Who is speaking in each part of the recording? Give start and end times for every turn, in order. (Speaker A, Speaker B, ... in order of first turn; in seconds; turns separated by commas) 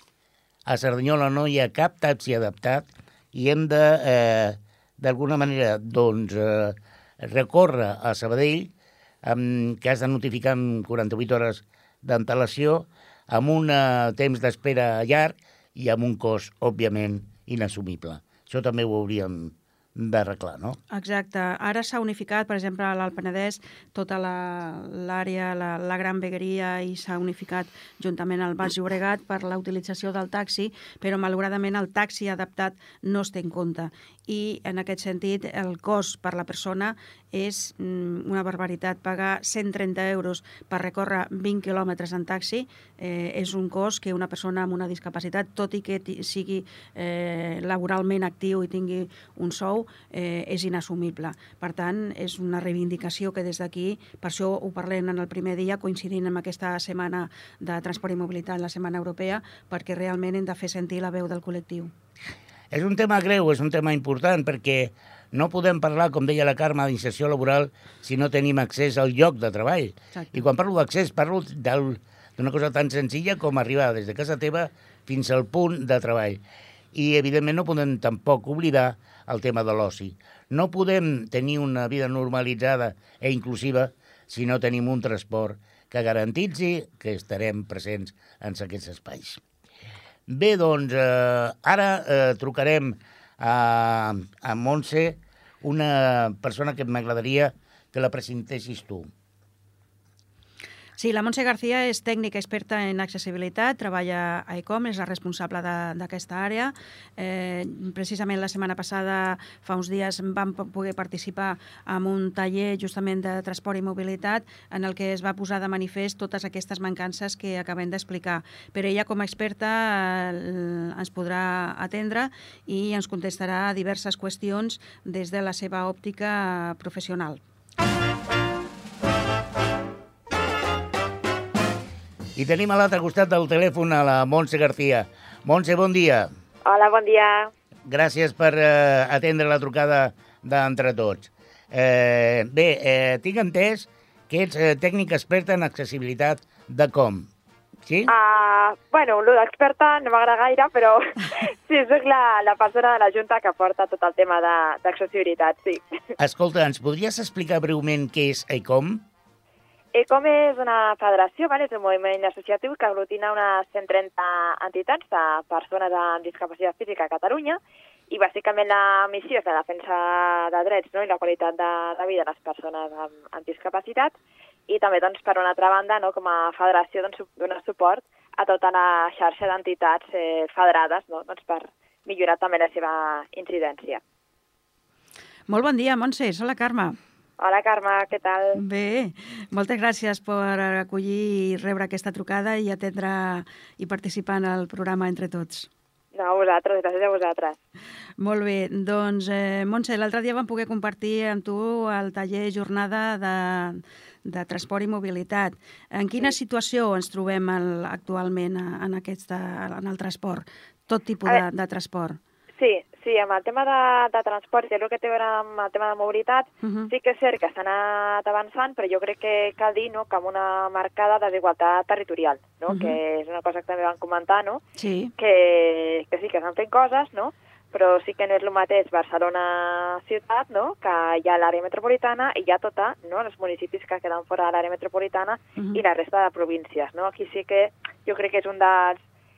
Speaker A: 0.7-8.7, Speaker A: 9.2-20.8, Speaker B: 20.9-61.9, Speaker A: 62.7-76.4, Speaker A: 76.9-89.4, Speaker A: 90.3-99.1, Speaker B: 101.0-127.4, Speaker A: 132.3-136.3, Speaker C: 136.6-137.5, Speaker A: 137.8-147.3, Speaker A: 147.8-148.1, Speaker C: 148.1-155.8, Speaker A: 156.2-159.0, Speaker C: 159.9-167.6, Speaker C: 168.1-174.1, Speaker C: 174.7-184.0, Speaker B: 185.5-187.0, Speaker C: 187.4-188.6, Speaker B: 188.6-195.7, Speaker C: 196.1-197.6, Speaker B: 198.2-212.2, Speaker C: 212.6-224.6, Speaker B: 216.6-216.9, Speaker B: 222.7-223.0, Speaker B: 224.8-225.1, Speaker C: 225.2-239.0, Speaker B: 235.6-235.8